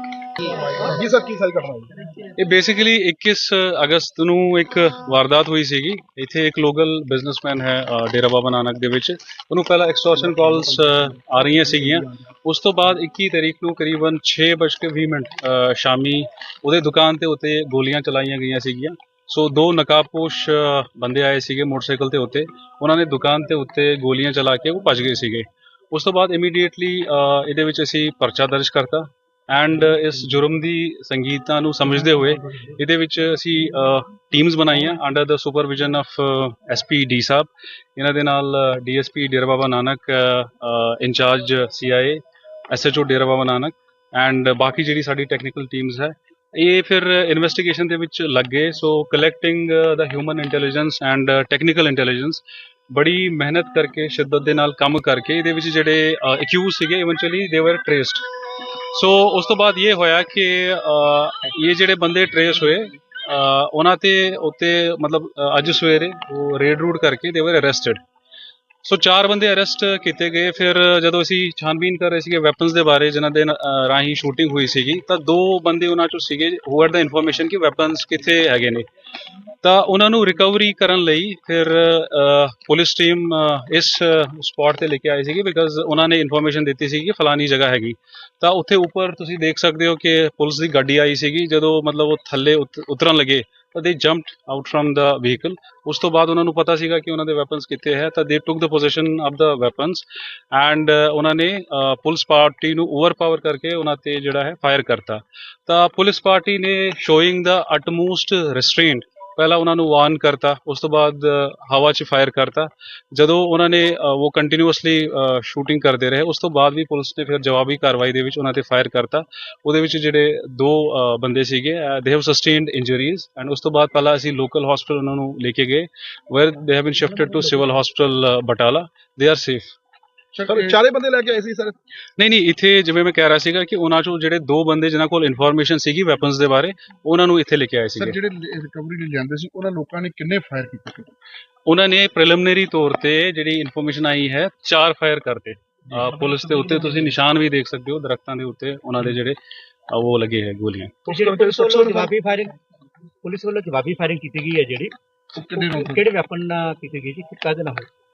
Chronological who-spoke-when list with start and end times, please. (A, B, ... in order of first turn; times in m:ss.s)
0:00.6-0:01.9 A
0:02.4-0:58.2 B
0:58.9-1:08.0 B
1:08.8-1:18.8 B
1:19.6-2:09.7 B
2:10.4-2:10.8 A
2:12.2-2:18.2 B
2:18.0-2:21.1 A
2:21.6-2:29.4 B
2:29.9-2:31.1 B
2:31.1-2:32.5 C
2:31.3-2:32.0 A
2:33.2-2:37.9 C
2:35.4-2:36.0 A